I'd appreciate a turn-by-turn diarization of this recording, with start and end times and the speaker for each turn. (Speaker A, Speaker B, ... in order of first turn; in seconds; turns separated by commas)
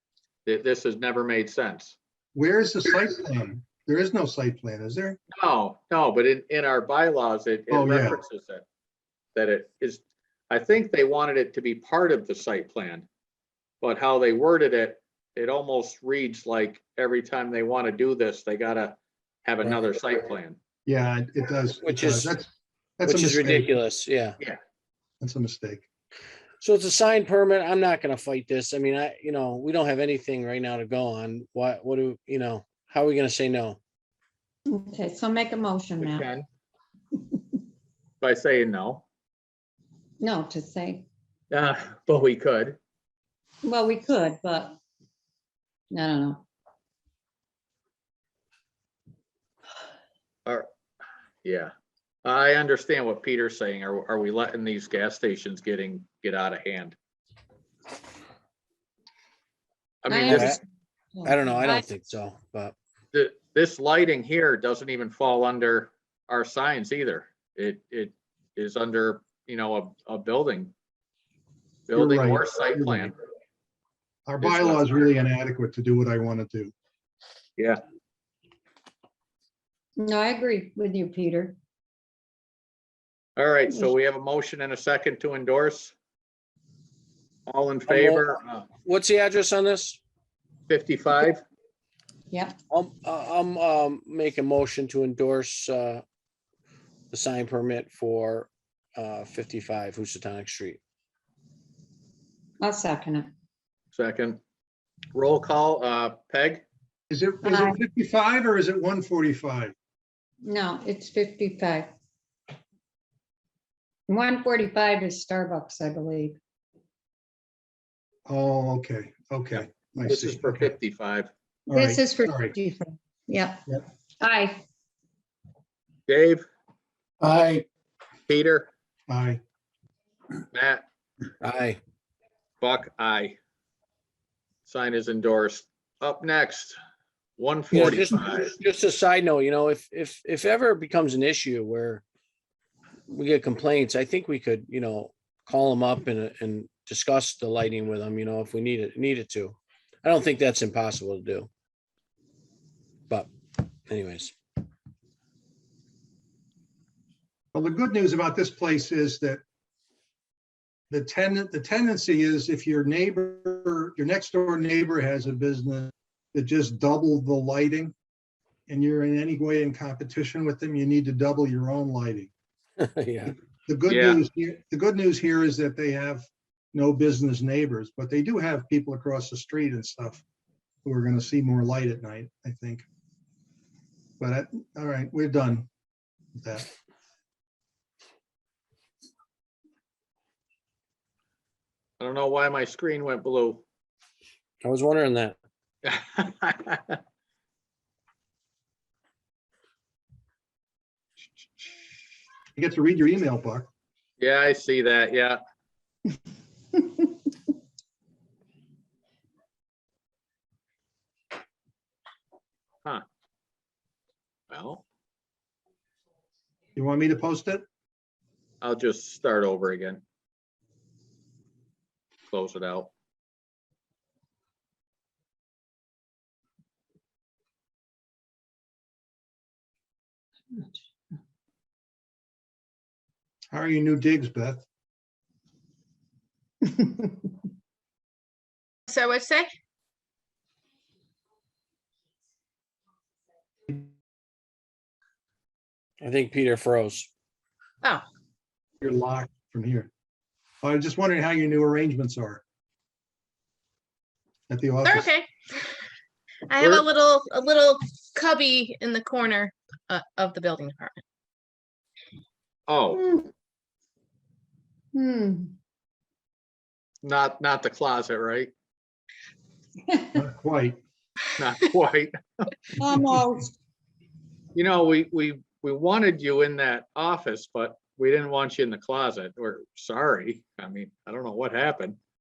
Speaker A: 0.5-2.0, Speaker B: 2.3-5.2, Speaker A: 5.3-8.6, Speaker B: 7.7-8.2, Speaker A: 9.3-13.1, Speaker A: 13.8-20.6, Speaker B: 20.9-23.7, Speaker C: 21.8-22.3, Speaker C: 23.1-24.4, Speaker B: 25.2-25.8, Speaker C: 26.6-33.8, Speaker D: 34.7-36.2, Speaker A: 36.0-36.5, Speaker A: 38.2-39.0, Speaker D: 40.2-41.1, Speaker A: 41.5-42.8, Speaker D: 43.6-44.8, Speaker D: 45.9-46.5, Speaker A: 51.4-51.7, Speaker A: 52.2-57.0, Speaker A: 60.0-60.6, Speaker D: 60.1-60.6, Speaker C: 60.2-60.6, Speaker D: 61.1-61.9, Speaker C: 61.2-62.7, Speaker A: 63.1-70.7, Speaker A: 71.9-73.1, Speaker B: 71.9-73.1, Speaker B: 74.3-76.7, Speaker A: 74.4-75.1, Speaker D: 80.0-81.6, Speaker A: 83.4-85.9, Speaker A: 87.5-88.7, Speaker C: 87.9-88.2, Speaker C: 88.8-90.0, Speaker A: 90.7-91.4, Speaker D: 92.3-92.6, Speaker C: 92.7-96.0, Speaker C: 97.1-100.8, Speaker D: 102.6-103.3, Speaker A: 103.9-104.4, Speaker A: 105.1-106.6, Speaker B: 107.1-109.7, Speaker D: 107.4-107.8, Speaker D: 110.4-111.9, Speaker D: 114.1-116.4, Speaker B: 118.3-120.7, Speaker A: 120.1-121.3, Speaker B: 121.7-122.5, Speaker D: 121.7-123.7, Speaker D: 124.2-124.6, Speaker A: 126.1-126.5, Speaker C: 127.2-127.6, Speaker A: 128.3-128.7, Speaker B: 129.1-129.4, Speaker A: 130.5-130.8, Speaker C: 131.4-131.8, Speaker A: 132.6-133.4, Speaker A: 134.6-136.8, Speaker A: 137.4-138.5, Speaker C: 137.7-142.0, Speaker C: 143.1-151.5, Speaker C: 153.9-154.3, Speaker B: 157.5-159.4, Speaker B: 160.9-167.9, Speaker B: 168.7-172.3, Speaker C: 172.8-173.4, Speaker B: 173.6-180.2, Speaker A: 173.9-174.2, Speaker B: 180.8-182.8, Speaker B: 184.2-185.7, Speaker B: 186.4-186.7, Speaker A: 192.0-193.6, Speaker C: 194.6-195.3, Speaker A: 195.8-197.0, Speaker B: 202.6-203.7, Speaker A: 204.2-205.4, Speaker A: 214.5-214.8, Speaker B: 216.8-217.6, Speaker A: 218.6-220.0, Speaker A: 222.3-222.9, Speaker B: 233.5-234.7, Speaker E: 238.9-239.5, Speaker C: 246.0-247.1, Speaker B: 248.8-249.9, Speaker B: 250.6-252.4, Speaker B: 254.5-255.1, Speaker E: 254.8-255.7, Speaker E: 256.5-261.0, Speaker B: 256.6-256.8, Speaker A: 262.7-263.1, Speaker D: 264.9-265.5, Speaker A: 267.0-268.5, Speaker B: 270.1-270.8, Speaker A: 271.4-272.5, Speaker D: 272.8-273.5, Speaker A: 274.5-282.0